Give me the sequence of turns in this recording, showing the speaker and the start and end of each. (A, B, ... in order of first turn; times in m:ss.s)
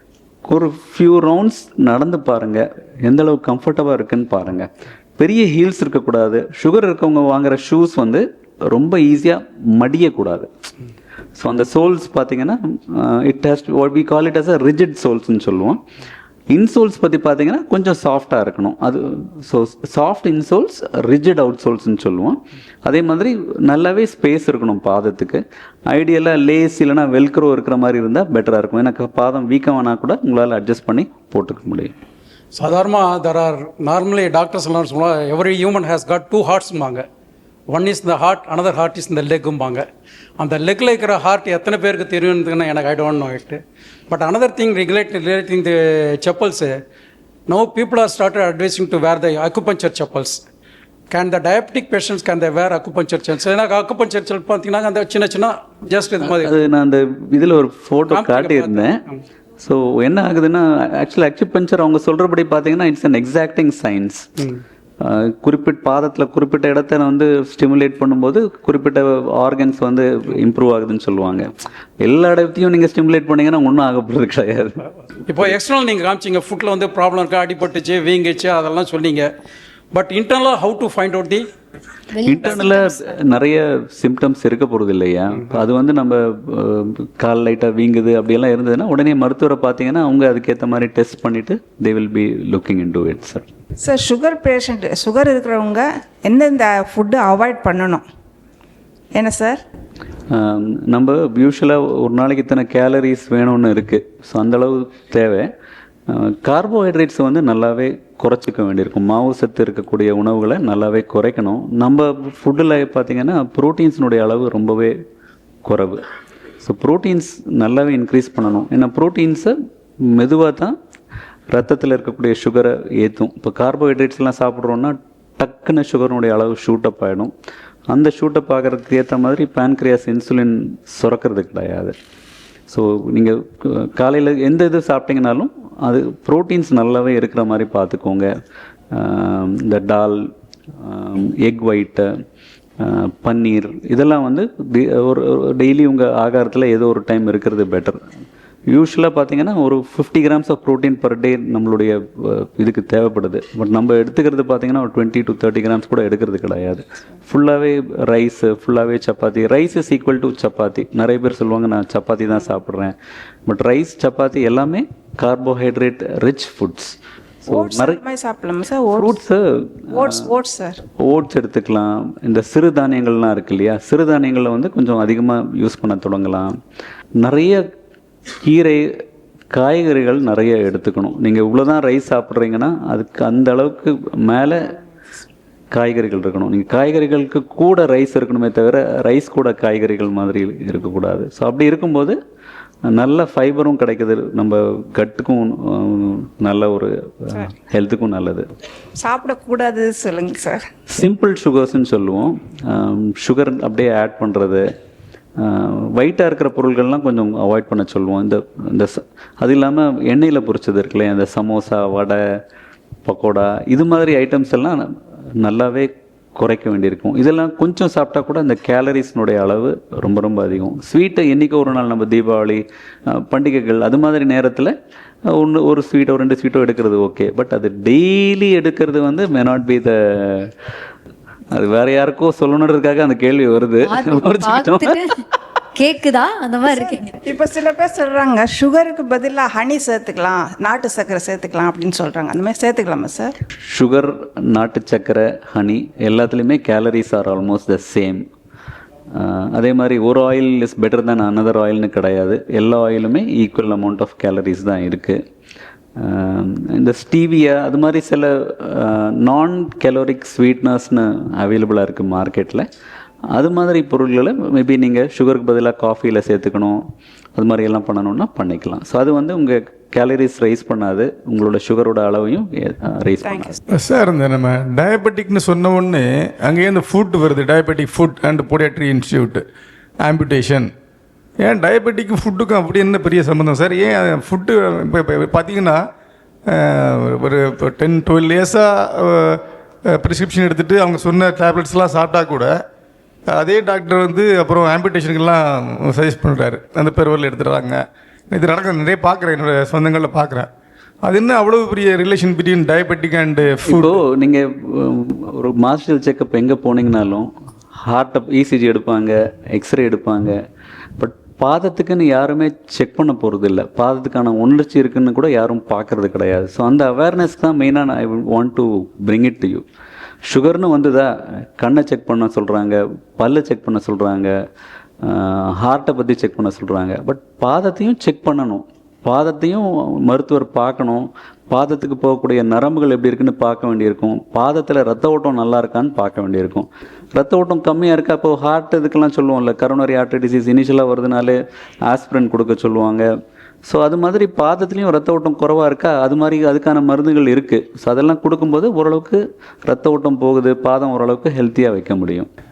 0:00.5-0:10.5 A
0:11.4-0:15.8 A
0:16.5-0:31.9 A
0:32.5-0:37.1 B
0:37.7-0:46.8 B
0:47.5-0:50.4 B
0:51.1-0:56.6 B
0:56.2-0:59.0 A
0:58.1-0:59.2 B
0:59.6-1:04.3 A
1:05.0-1:14.8 A
1:15.3-1:19.3 B
1:19.9-1:21.5 B
1:22.1-1:23.1 C
1:22.2-1:33.5 A
1:33.8-1:38.1 D
1:39.2-1:39.6 D
1:40.3-1:45.5 A
1:46.1-1:55.0 A
1:55.7-1:56.0 A
1:56.6-1:59.6 A
2:00.1-2:00.8 A
2:01.5-2:07.3 A
2:07.9-2:12.0 A
2:12.7-2:18.3 A
2:18.9-2:20.2 A
2:20.8-2:22.1 A
2:22.8-2:28.0 A
2:28.7-2:42.9 A
2:43.5-2:48.0 A
2:47.5-2:49.2 D
2:48.9-2:50.3 A
2:49.9-2:50.8 D
2:51.0-2:56.5 A
2:57.2-2:57.6 A
2:58.4-2:58.9 A
2:59.5-3:04.7 A
3:05.7-3:12.2 A
3:12.9-3:18.5 A
3:19.0-3:20.7 D
3:20.9-3:24.7 A
3:25.4-3:32.2 A
3:33.1-3:34.9 A
3:35.4-3:44.7 A
3:45.3-3:50.5 A
3:51.5-3:55.0 A
3:53.9-3:55.1 C
3:55.8-3:57.2 C
3:56.8-4:03.4 D
4:03.7-4:08.3 A
4:09.1-4:15.2 A
4:16.0-4:22.7 A
4:23.3-4:26.8 A
4:27.4-4:33.6 A
4:33.3-4:33.6 D
4:33.8-4:39.4 E
4:40.0-4:40.7 E
4:41.4-4:45.8 E
4:46.5-4:52.6 E
4:53.3-5:00.5 E
5:01.0-5:03.8 E
5:03.6-5:07.3 A
5:07.9-5:10.4 A
5:11.0-5:19.6 A
5:20.3-5:24.3 A
5:25.0-5:43.1 A
5:43.7-5:52.3 A